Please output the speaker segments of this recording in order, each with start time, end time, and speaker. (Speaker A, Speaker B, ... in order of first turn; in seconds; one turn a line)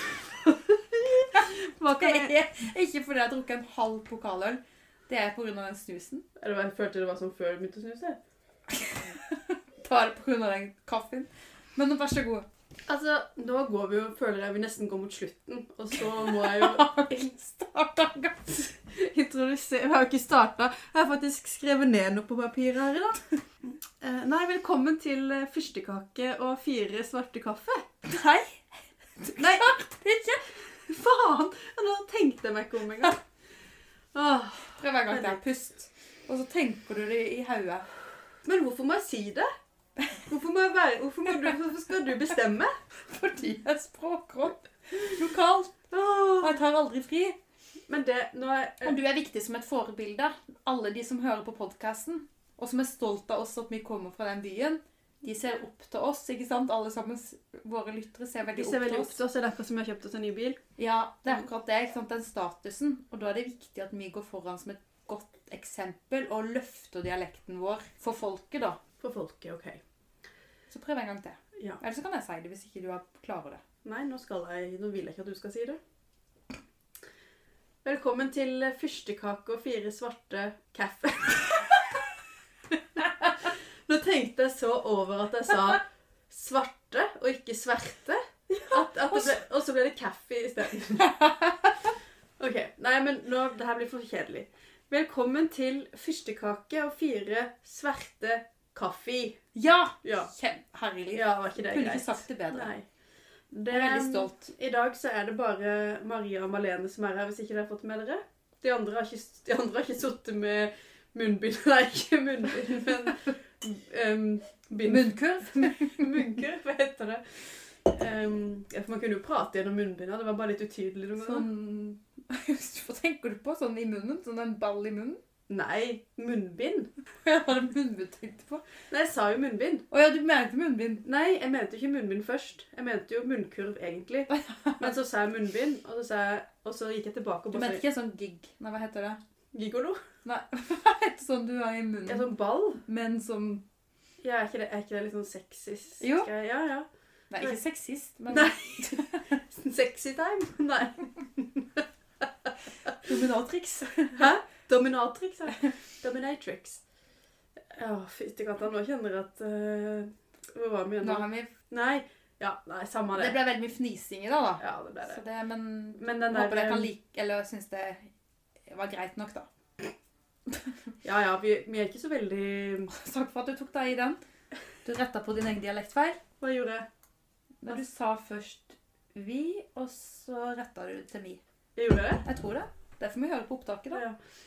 Speaker A: 0.5-2.4
Speaker B: 2.0-6.2
Speaker A: 6.4-8.2
Speaker B: 8.7-12.5
Speaker A: 12.9-16.9
Speaker B: 16.1-18.6
Speaker A: 18.9-27.9
Speaker B: 28.1-28.6
Speaker B: 29.2-30.4
Speaker A: 29.4-29.9
Speaker A: 30.7-33.2
Speaker A: 34.1-35.4
Speaker B: 34.8-37.9
Speaker A: 38.5-39.5
Speaker A: 40.3-42.8
Speaker B: 43.1-45.9
Speaker A: 45.9-46.6
Speaker B: 46.4-47.4
Speaker A: 47.9-49.0
Speaker B: 48.8-59.2
Speaker A: 58.5-60.6
Speaker B: 60.8-68.8
Speaker A: 69.0-69.8
Speaker B: 70.7-73.6
Speaker A: 71.6-71.8
Speaker A: 73.8-75.8
Speaker A: 77.8-81.8
Speaker A: 82.8-91.1
Speaker B: 91.0-91.9
Speaker A: 92.4-99.4
Speaker B: 99.5-102.7
Speaker A: 100.0-100.3
Speaker A: 101.1-102.9
Speaker A: 103.5-121.5
Speaker B: 103.7-104.5
Speaker B: 114.8-116.3
Speaker B: 121.2-125.2
Speaker A: 125.5-126.9
Speaker B: 127.2-128.6
Speaker A: 128.9-129.8
Speaker B: 129.9-131.1
Speaker A: 131.1-137.8
Speaker B: 134.3-134.9
Speaker B: 137.5-139.2
Speaker A: 139.5-140.0
Speaker B: 140.2-143.6
Speaker A: 142.1-142.8
Speaker A: 144.2-146.9
Speaker B: 146.0-146.3
Speaker B: 147.3-149.2
Speaker A: 148.3-151.8
Speaker B: 153.0-154.3
Speaker A: 154.1-156.8
Speaker A: 157.7-163.4
Speaker B: 161.0-161.5
Speaker B: 163.2-168.1
Speaker A: 164.6-165.2
Speaker A: 166.0-166.9
Speaker B: 168.7-169.5
Speaker B: 170.5-170.8
Speaker A: 171.0-172.9
Speaker B: 172.9-174.2
Speaker B: 174.8-176.2
Speaker A: 176.4-176.9
Speaker B: 177.6-181.4
Speaker A: 181.8-182.2
Speaker B: 182.2-184.0
Speaker A: 183.9-184.2